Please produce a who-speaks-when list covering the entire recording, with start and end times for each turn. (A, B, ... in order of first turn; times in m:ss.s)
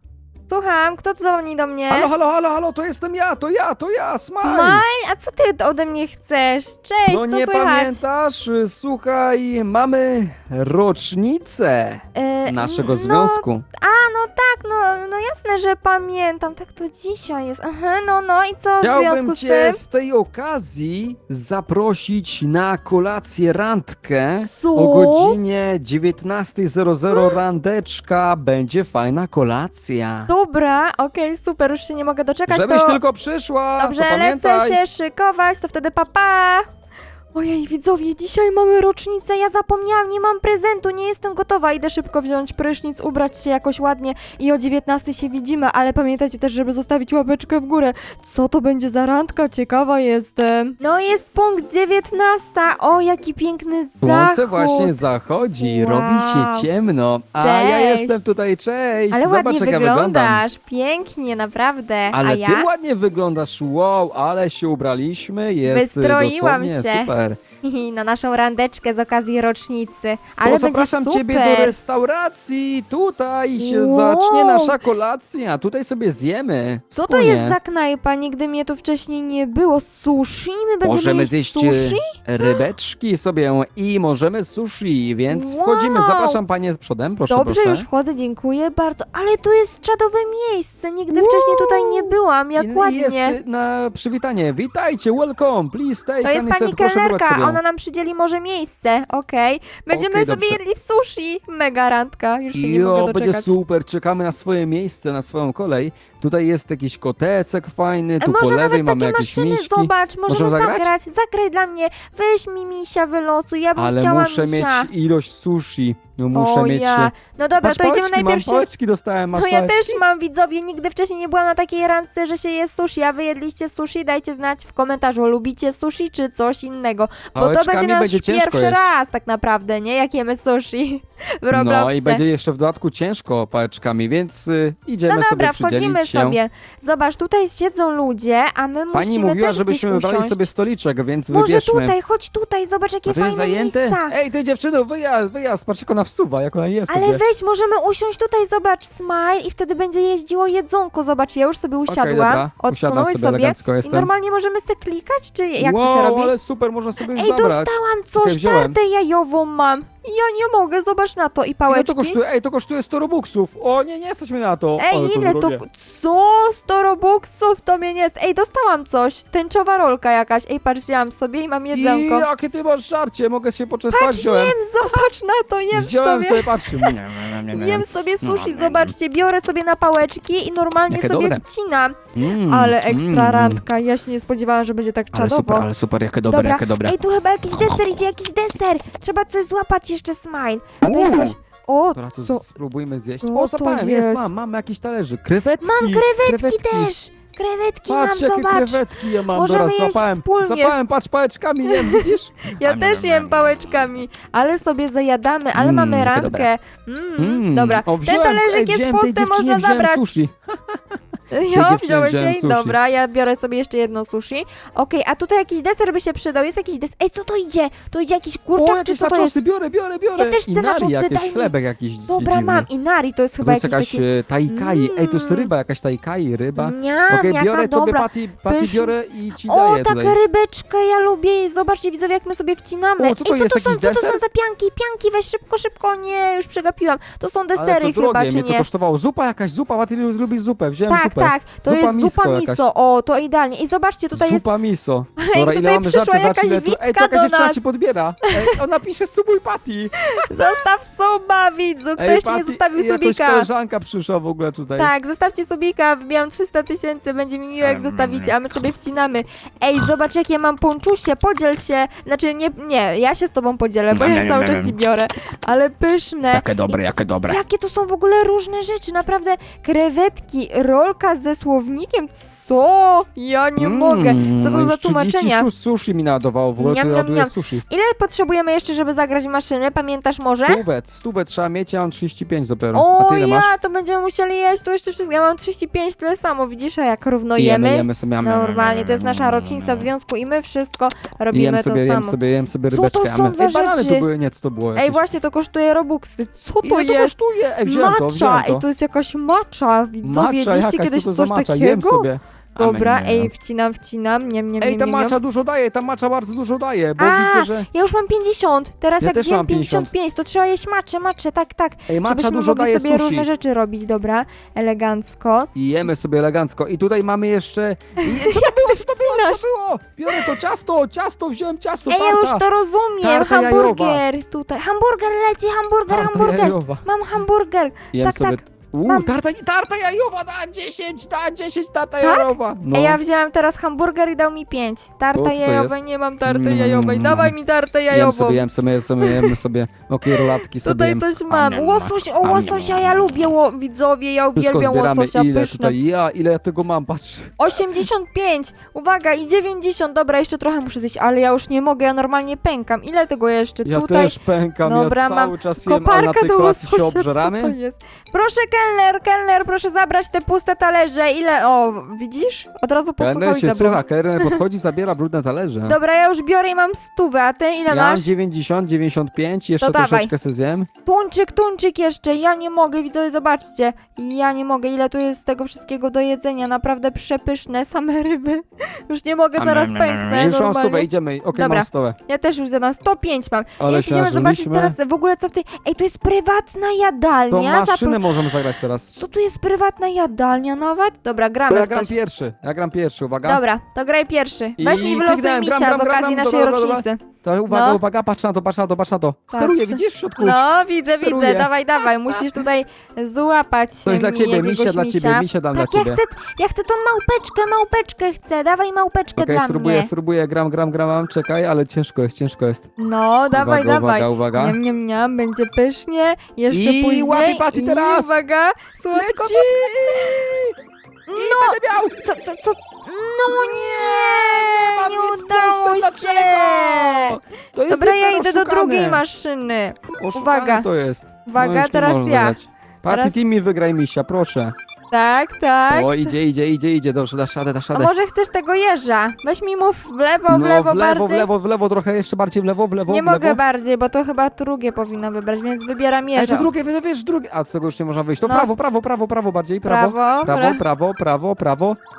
0:00.5-0:02.1 A
0:01.9-0:04.8 B
0:04.4-0:08.0 A
0:07.1-0:13.6 B
0:12.2-0:19.8 A
0:18.8-0:30.3 B
0:24.3-0:25.4 A
0:27.1-0:27.4 A
0:30.3-0:33.0 A
0:32.5-0:34.8 B
0:33.8-0:36.7 A
0:37.4-0:55.0 A
0:54.0-1:00.4 B
0:55.6-0:56.7 A
0:57.4-0:58.3 A
0:59.1-1:02.7 A
1:02.1-1:07.4 B
1:05.6-1:07.1 A
1:07.6-1:11.7 A
1:10.4-1:17.6 B
1:13.6-1:14.8 A
1:16.9-1:22.6 A
1:20.8-1:27.9 B
1:25.3-1:26.4 A
1:27.3-1:33.4 A
1:31.1-1:37.6 B
1:36.2-1:43.6 A
1:39.9-1:40.6 B
1:42.5-1:50.9 B
1:48.2-1:54.9 A
1:53.8-2:00.0 B
1:56.3-1:58.7 A
1:59.3-2:12.2 A
2:07.4-2:08.9 B
2:11.5-2:16.4 B
2:15.1-2:20.5 A
2:18.9-2:22.0 B
2:21.3-2:24.2 A
2:23.1-2:27.2 B
2:26.9-2:36.3 A
2:31.9-2:34.1 B
2:35.6-2:38.8 B
2:37.0-2:42.2 A
2:41.7-2:45.6 B
2:44.8-2:52.3 A
2:51.7-2:54.6 B
2:53.9-3:05.7 A
2:55.7-2:58.9 B
3:00.9-3:01.4 B
3:02.2-3:03.6 B
3:05.1-3:07.0 B
3:06.3-3:12.4 A
3:10.8-3:11.3 B
3:12.0-3:16.9 B
3:13.2-3:14.3 A
3:15.6-3:20.8 A
3:17.9-3:23.5 B
3:21.6-3:30.1 A
3:25.6-3:26.5 B
3:27.2-3:31.0 B
3:31.3-3:39.4 A
3:31.5-3:32.8 B
3:38.6-3:42.7 B
3:40.2-3:41.5 A
3:42.1-3:45.5 A
3:43.4-3:50.2 B
3:46.6-3:58.7 A
3:53.0-3:54.2 B
3:57.6-4:02.6 B
4:00.9-4:04.4 A
4:04.1-4:09.9 B
4:05.2-4:07.6 A
4:08.2-4:08.6 A
4:10.2-4:13.5 A
4:12.0-4:14.9 B
4:14.8-4:35.5 A
4:17.6-4:18.4 B
4:23.9-4:24.8 B
4:26.3-4:27.4 B
4:33.6-4:37.6 B
4:36.6-4:40.6 A
4:40.5-4:43.5 B
4:42.7-4:52.2 A
4:47.4-4:49.9 B
4:51.3-4:55.0 B
4:52.7-4:54.1 A
4:54.8-5:05.2 A
4:56.6-4:58.6 B
5:00.0-5:03.3 B
5:04.6-5:07.7 B
5:07.0-5:15.5 A
5:09.0-5:09.9 B
5:11.9-5:13.3 B
5:15.6-5:22.4 B
5:18.0-5:19.4 A
5:21.9-5:29.2 A
5:23.0-5:24.0 B
5:25.9-5:26.8 B
5:27.9-5:33.0 B
5:32.0-5:38.4 A
5:35.2-5:37.4 B
5:37.9-5:43.3 B
5:39.0-5:39.4 A
5:40.2-5:45.8 A
5:44.4-5:47.6 B
5:47.4-6:04.4 A
5:53.6-5:57.6 B
6:03.0-6:05.8 B
6:05.7-6:08.1 A
6:07.7-6:10.7 B
6:09.6-6:10.1 A
6:10.8-6:28.2 A
6:19.4-6:22.0 B
6:23.6-6:24.8 B
6:27.3-6:28.9 B
6:28.9-6:31.9 A
6:31.5-6:33.4 B
6:33.2-6:37.8 A
6:34.6-6:42.3 B
6:39.3-6:49.9 A
6:43.8-6:46.0 B
6:49.2-6:52.7 B
6:52.8-7:00.2 A
6:53.3-6:54.6 B
6:56.5-6:58.2 B
6:58.9-7:00.6 B
7:01.1-7:10.7 A
7:01.1-7:02.0 B
7:03.5-7:09.0 B
7:10.0-7:14.5 B
7:11.3-7:12.4 A
7:12.9-7:13.2 A
7:14.9-7:16.1 A
7:15.7-7:17.9 B
7:17.7-7:21.3 A
7:20.3-7:23.4 B
7:22.9-7:26.5 A
7:26.2-7:31.8 B
7:28.2-7:28.5 A
7:29.6-7:30.6 A